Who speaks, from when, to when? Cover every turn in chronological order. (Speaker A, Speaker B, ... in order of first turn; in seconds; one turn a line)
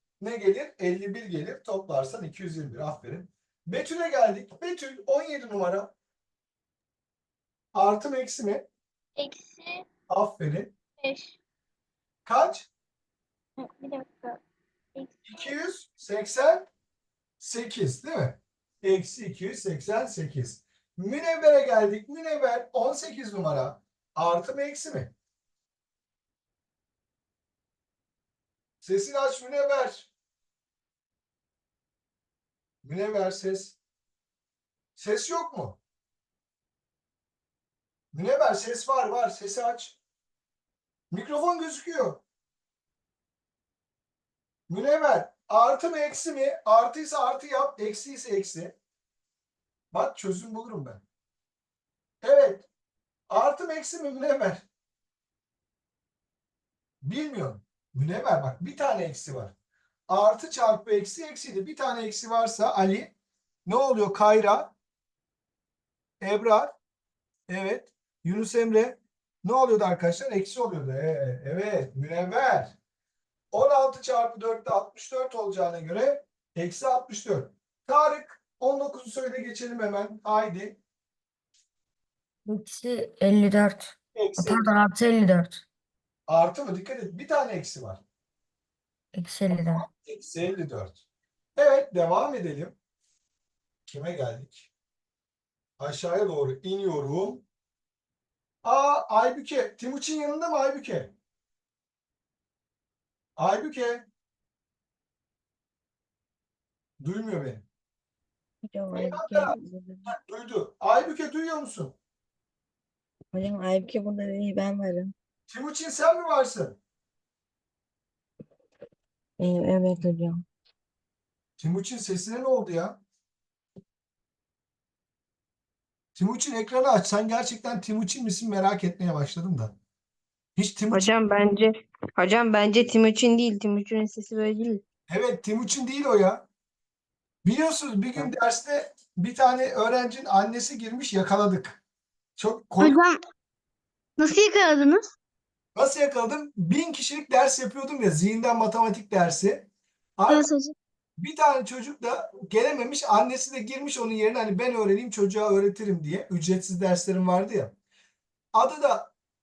Speaker A: 0.2-5.9
Speaker A: 7.7-8.6
Speaker B: 9.2-9.6
Speaker A: 10.1-10.7
Speaker A: 12.2-12.7
Speaker A: 15.2-16.7
Speaker A: 17.4-25.1
Speaker A: 28.8-30.1
Speaker A: 32.8-33.8
Speaker A: 35.0-35.8
Speaker A: 38.1-40.0
Speaker A: 41.1-42.2
Speaker A: 44.7-48.7
Speaker A: 49.9-51.0
Speaker A: 52.2-52.6
Speaker A: 53.3-54.6
Speaker A: 57.0-59.5
Speaker A: 60.1-63.1
Speaker A: 63.6-64.7
Speaker A: 66.2-66.7
Speaker A: 67.5-72.7
Speaker A: 73.5-80.8
Speaker C: 82.4-85.6
Speaker A: 84.2-84.7
Speaker A: 86.3-88.0
Speaker C: 89.1-89.9
Speaker A: 89.5-91.0
Speaker A: 91.6-92.8
Speaker A: 93.9-94.7
Speaker A: 95.8-97.4
Speaker A: 98.6-101.1
Speaker A: 103.4-104.0
Speaker A: 107.0-107.6
Speaker C: 108.6-110.1
Speaker A: 108.9-111.9
Speaker C: 113.3-115.1
Speaker A: 115.5-116.8
Speaker C: 119.4-120.4
Speaker A: 121.6-123.0
Speaker A: 126.2-129.7
Speaker A: 130.6-131.1
Speaker D: 130.9-134.8
Speaker A: 135.1-136.4
Speaker A: 137.4-141.8
Speaker A: 142.4-143.0
Speaker B: 142.8-143.2
Speaker B: 144.2-145.1
Speaker A: 145.8-149.7
Speaker A: 150.2-150.5
Speaker B: 150.3-150.7
Speaker A: 151.2-157.7
Speaker A: 158.5-159.1